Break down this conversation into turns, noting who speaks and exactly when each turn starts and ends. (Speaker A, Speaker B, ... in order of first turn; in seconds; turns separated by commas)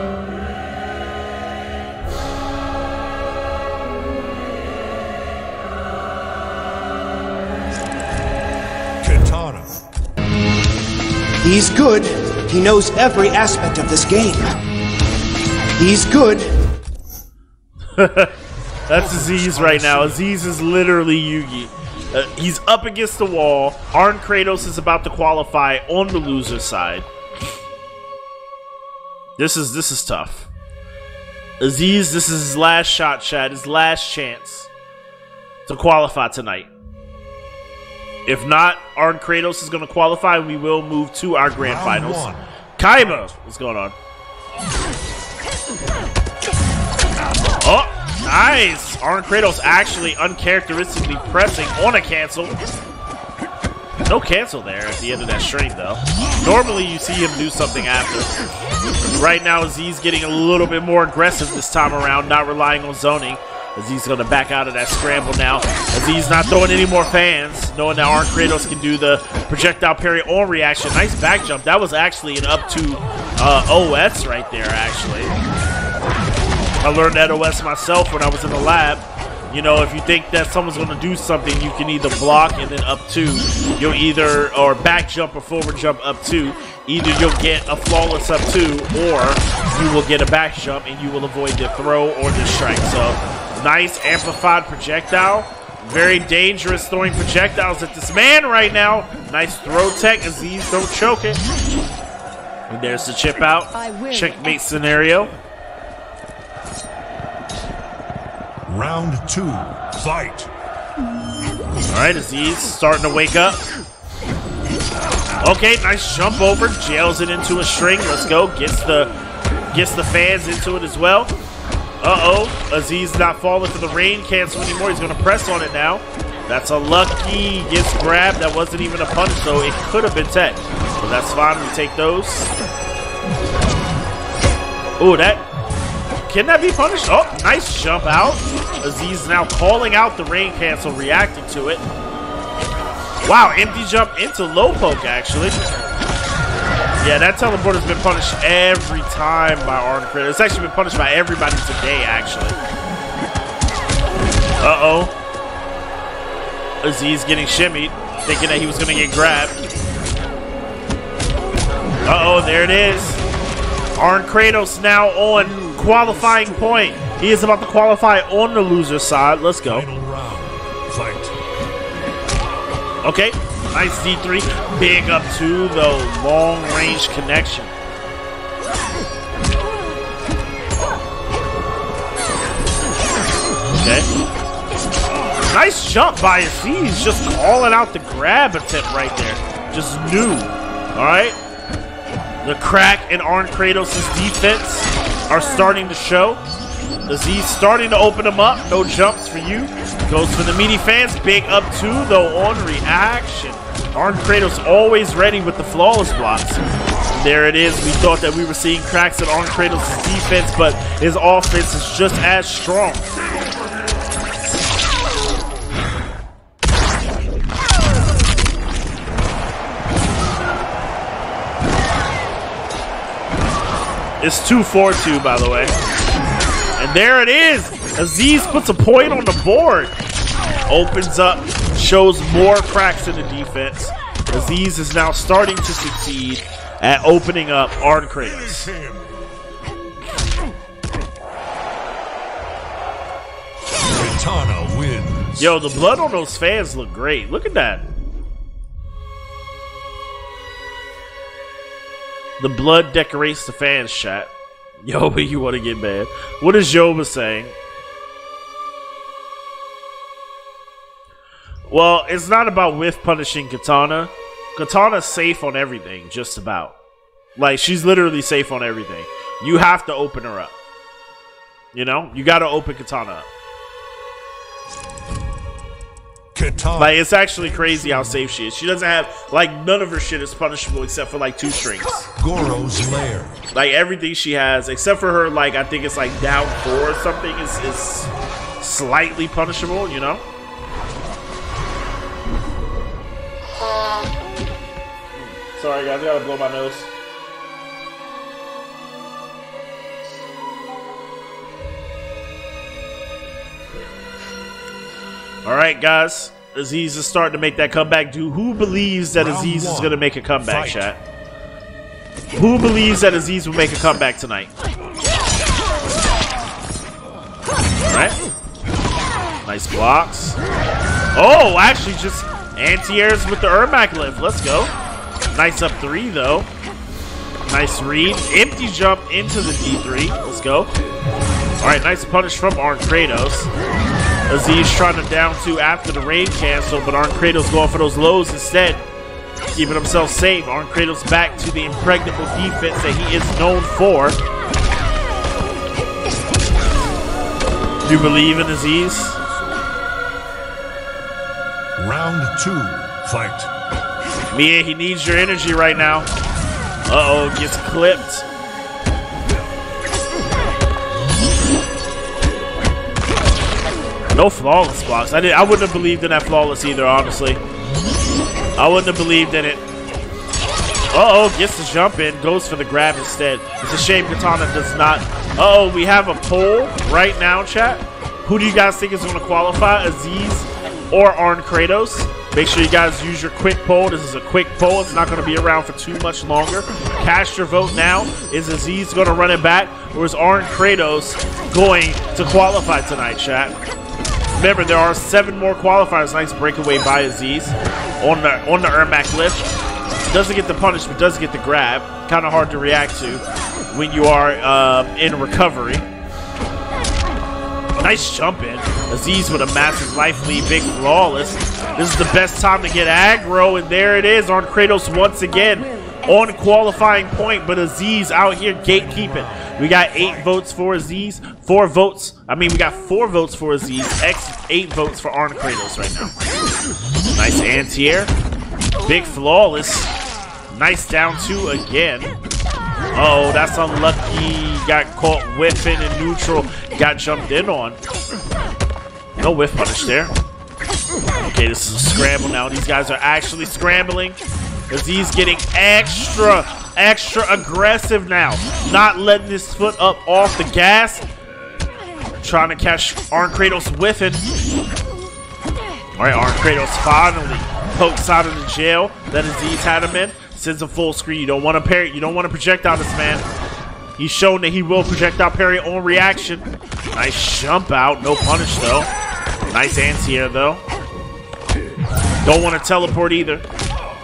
Speaker A: 9.0-9.7, Speaker B: 11.4-14.6, Speaker B: 15.8-16.5, Speaker C: 17.9-18.3, Speaker C: 18.9-27.1, Speaker A: 18.9-20.2, Speaker C: 29.4-30.5, Speaker C: 31.6-34.7, Speaker C: 35.6-36.7, Speaker C: 38.2-43.9, Speaker A: 41.6-43.3, Speaker C: 47.6-52.5, Speaker C: 54.0-58.3, Speaker C: 59.1-75.3, Speaker C: 76.8-101.4, Speaker C: 102.7-105.3, Speaker A: 108.7-110.5, Speaker C: 111.9-113.6, Speaker C: 115.4-119.1, Speaker C: 119.7-121.3, Speaker C: 122.0-132.5, Speaker C: 135.0-135.4, Speaker C: 136.3-141.8, Speaker C: 143.2-145.6, Speaker C: 147.0-152.6, Speaker C: 154.6-155.1, Speaker C: 156.8-159.6, Speaker C: 162.0-163.2, Speaker C: 163.9-169.9, Speaker A: 169.6-171.4, Speaker C: 173.0-177.7, Speaker C: 183.7-184.1, Speaker C: 185.5-191.4, Speaker C: 192.4-196.4, Speaker C: 197.1-206.6, Speaker C: 207.1-213.1, Speaker C: 224.2-225.7, Speaker C: 226.8-229.9, Speaker C: 230.7-238.7, Speaker A: 238.0-239.2, Speaker A: 243.8-245.5, Speaker C: 245.4-247.8, Speaker C: 252.4-254.3, Speaker C: 254.8-257.5, Speaker C: 261.7-266.8, Speaker C: 267.4-270.5, Speaker C: 271.7-273.3, Speaker A: 276.3-278.3, Speaker C: 276.8-282.1, Speaker A: 282.2-283.4, Speaker C: 283.5-290.2, Speaker C: 295.1-296.9, Speaker C: 305.4-311.0, Speaker A: 309.1-310.9, Speaker C: 312.3-314.5, Speaker C: 317.8-318.2, Speaker C: 319.4-320.4, Speaker C: 321.1-324.7, Speaker C: 325.3-326.5, Speaker C: 327.4-330.7, Speaker C: 331.6-333.5, Speaker C: 334.3-338.8, Speaker C: 339.5-344.2, Speaker C: 347.8-349.2, Speaker A: 351.8-353.5, Speaker C: 354.3-356.1, Speaker C: 356.9-358.2, Speaker C: 364.1-367.4, Speaker C: 368.6-369.6, Speaker C: 370.9-393.6, Speaker C: 394.3-399.5, Speaker C: 400.1-405.8, Speaker C: 407.8-426.1, Speaker A: 418.6-420.4, Speaker C: 427.1-428.1, Speaker C: 428.8-429.9, Speaker C: 430.5-432.1, Speaker C: 432.9-437.8, Speaker C: 439.2-440.1, Speaker C: 441.2-444.2, Speaker C: 444.7-451.0, Speaker C: 452.2-454.2, Speaker C: 455.9-463.2, Speaker C: 464.0-468.9, Speaker C: 469.5-470.6, Speaker C: 472.2-473.4